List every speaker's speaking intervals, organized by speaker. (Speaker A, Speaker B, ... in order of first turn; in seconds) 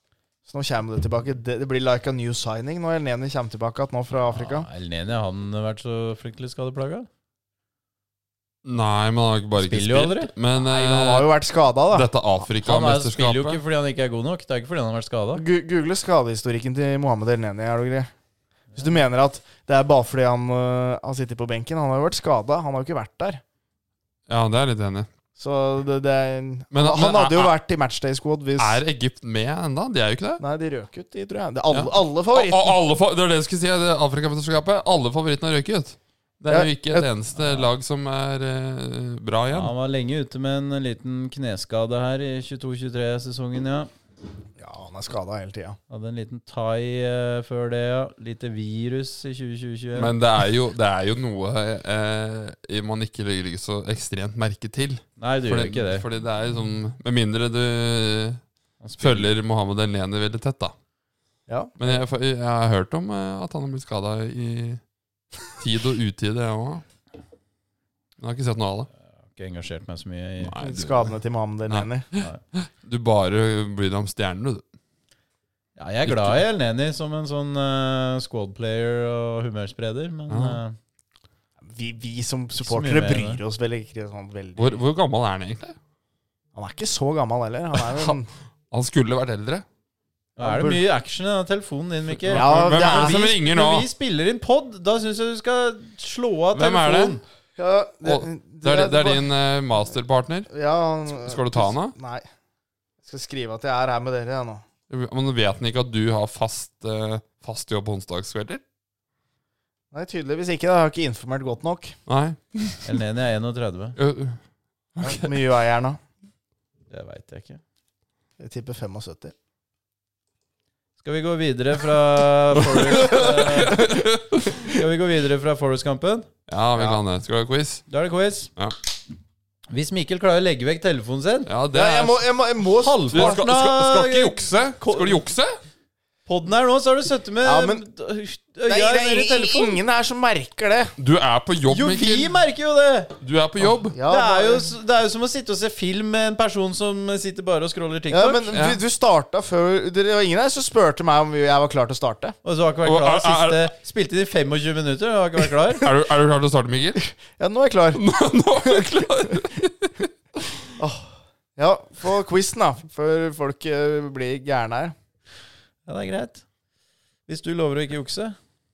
Speaker A: 0.5-4.7, 10.5-12.1, 15.3-18.1, 18.8-23.4, 25.4-28.8, 30.4-32.8, 36.5-37.1, 44.6-45.8, 61.5-62.0, 70.6-72.1, 81.6-84.8, 86.5-88.3, 90.4-90.8, 92.3-93.2, 97.6-99.3, 100.5-102.2, 103.0-104.6, 109.9-111.9, 115.0-116.0, 118.4-119.3, 123.0-123.9, 131.7-133.4, 137.4-137.8, 138.7-140.9, 143.9-144.7, 148.1-152.3, 157.2-158.0, 158.6-159.4, 160.8-164.9
Speaker B: 4.3-7.1, 9.6-10.3, 12.6-15.4, 39.5-43.9, 45.9-50.1, 55.2-56.0, 58.8-59.3, 69.3-70.5, 75.8-80.8, 82.6-83.4, 90.4-97.2, 112.8-114.0, 116.9-117.6, 121.0-123.9, 124.6-126.3, 127.9-128.5, 129.7-131.5, 132.8-135.2, 136.3-139.8, 141.7-143.1, 144.1-148.5, 152.4-155.9, 165.9-166.4, 167.3-168.3
Speaker C: 8.6-11.3, 11.9-13.6, 24.3-25.1, 26.7-27.5, 28.6-30.4, 31.7-39.7, 49.9-58.4, 59.0-60.7, 61.8-64.8, 65.5-66.8, 68.2-68.9, 70.4-71.1, 71.7-74.6, 76.0-76.4, 80.3-80.6, 84.5-85.8, 87.8-88.2, 88.7-89.6, 92.2-93.9, 96.5-97.2, 98.0-100.5, 101.1-101.9, 104.9-108.6, 112.1-112.9, 114.0-114.4, 115.0-115.3, 122.9-124.6, 126.5-127.8, 131.4-132.2, 133.1-135.5, 141.0-142.3, 143.2-144.0, 148.5-148.8, 152.8-153.7, 155.8-157.1, 157.9-160.0